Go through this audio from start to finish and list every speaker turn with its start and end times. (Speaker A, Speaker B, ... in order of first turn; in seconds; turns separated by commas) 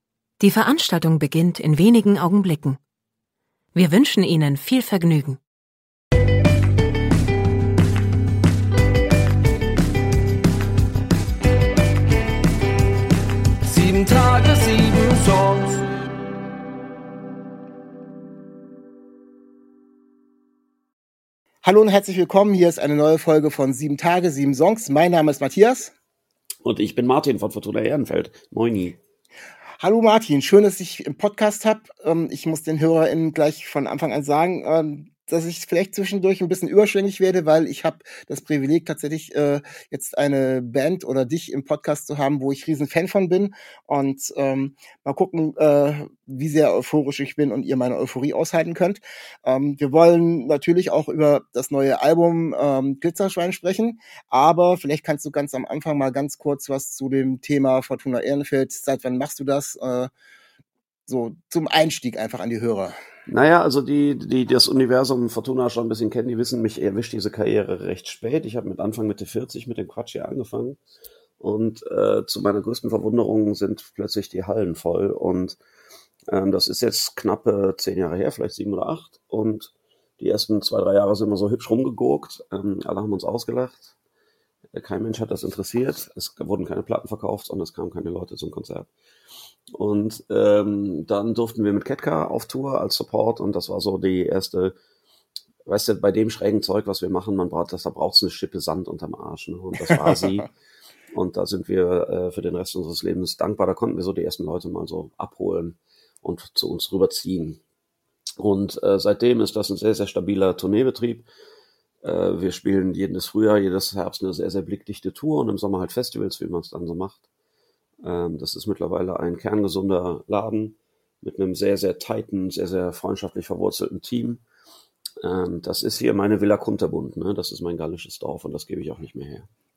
Speaker A: 0.4-2.8, Speaker A: 3.7-5.4, Speaker B: 13.7-15.8, Speaker C: 21.6-25.9, Speaker D: 26.6-29.0, Speaker C: 29.8-60.1, Speaker C: 61.1-62.9, Speaker D: 63.3-70.8, Speaker D: 71.4-75.6, Speaker D: 76.3-83.9, Speaker D: 84.7-88.9, Speaker D: 89.7-94.7, Speaker D: 95.6-100.5, Speaker D: 101.1-107.6, Speaker D: 108.4-111.2, Speaker D: 112.0-117.2, Speaker D: 118.0-124.4, Speaker D: 125.2-129.5